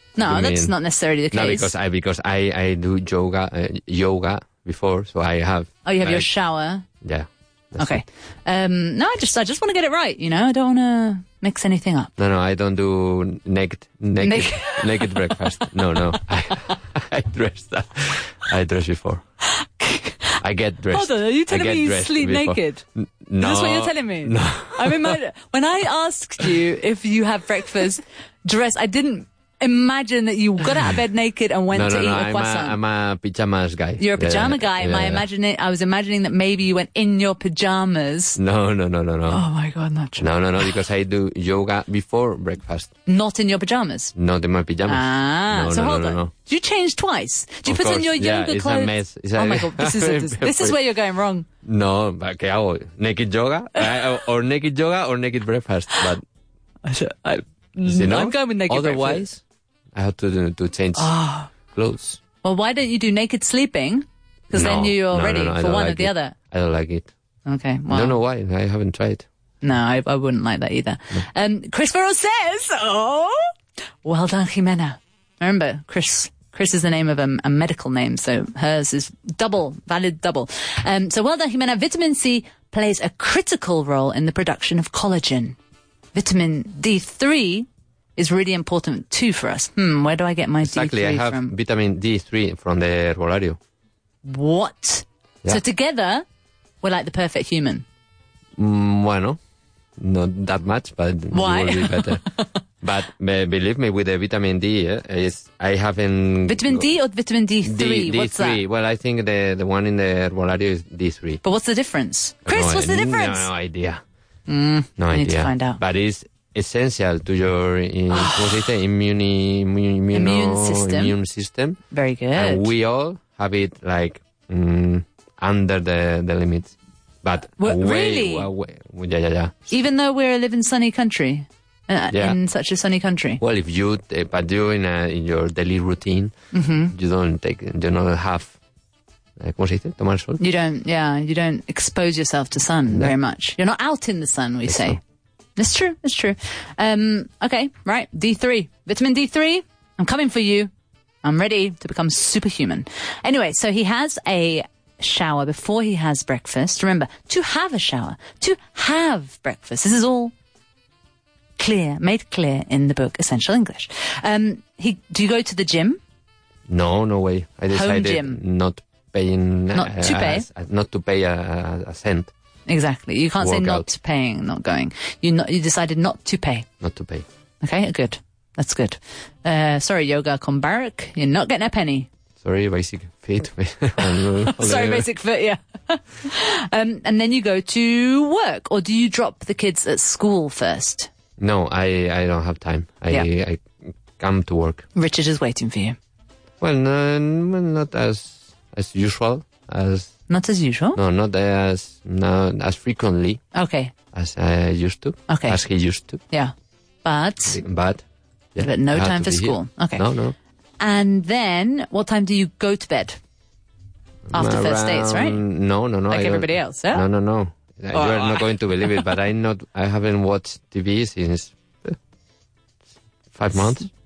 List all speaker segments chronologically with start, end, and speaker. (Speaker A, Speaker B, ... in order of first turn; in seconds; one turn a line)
Speaker A: 0.2-1.7
Speaker B: 0.2-0.8
Speaker B: 1.3-6.3
Speaker A: 5.8-6.9
Speaker B: 7.0-8.0
Speaker A: 7.8-12.1
Speaker B: 12.2-19.2
Speaker A: 14.2-15.4
Speaker A: 19.4-20.4
Speaker B: 20.4-25.2
Speaker A: 20.9-22.8
Speaker A: 23.4-32.8
Speaker B: 31.7-35.2
Speaker A: 34.0-38.4
Speaker B: 38.4-39.5
Speaker A: 39.3-40.3
Speaker B: 40.2-42.9
Speaker A: 43.1-44.1
Speaker B: 44.1-46.3
Speaker A: 44.9-51.5
Speaker B: 47.7-50.8
Speaker B: 51.6-56.2
Speaker A: 56.9-59.3
Speaker B: 57.9-59.4
Speaker B: 59.9-61.1
Speaker A: 61.0-61.5
Speaker B: 61.7-62.2
Speaker A: 62.4-66.3
Speaker B: 64.5-67.1
Speaker A: 67.5-68.2
Speaker B: 67.9-69.3
Speaker A: 69.6-73.5
Speaker A: 74.0-85.6
Speaker A: 86.2-91.5
Speaker B: 90.6-93.6
Speaker A: 94.2-96.2
Speaker A: 96.8-97.8
Speaker B: 98.6-99.4
Speaker B: 100.0-102.2
Speaker A: 101.3-102.5
Speaker B: 102.8-106.9
Speaker A: 106.5-108.6
Speaker B: 107.7-111.4
Speaker A: 111.4-113.5
Speaker B: 112.5-114.0
Speaker A: 114.5-115.8
Speaker B: 115.0-121.8
Speaker A: 118.1-118.7
Speaker A: 120.1-121.2
Speaker A: 121.9-122.7
Speaker B: 122.3-129.6
Speaker A: 127.6-128.5
Speaker A: 129.7-133.4
Speaker B: 132.1-132.4
Speaker B: 133.4-136.3
Speaker A: 136.5-136.9
Speaker B: 136.9-138.6
Speaker B: 139.4-140.4
Speaker A: 140.4-145.0
Speaker B: 144.7-145.0
Speaker A: 145.6-150.7
Speaker A: 151.2-160.3
Speaker A: 161.6-166.0
Speaker B: 166.7-172.3
Speaker A: 167.7-168.4
Speaker A: 169.7-170.5
Speaker A: 172.7-176.7
Speaker B: 173.4-173.9
Speaker B: 176.8-177.3
Speaker A: 177.6-182.1
Speaker B: 182.4-185.1
Speaker A: 184.0-191.1
Speaker B: 191.4-194.9
Speaker A: 195.0-196.0
Speaker B: 196.6-200.2
Speaker A: 200.3-201.0
Speaker B: 201.0-203.4
Speaker A: 203.5-203.9
Speaker B: 204.1-206.2
Speaker A: 205.3-205.6
Speaker A: 207.0-207.6
Speaker B: 207.5-208.0
Speaker B: 208.6-210.3
Speaker A: 208.6-210.0
Speaker A: 210.8-213.2
Speaker B: 214.3-222.0
Speaker A: 214.3-215.4
Speaker A: 216.1-217.1
Speaker A: 217.9-219.1
Speaker B: 223.3-223.9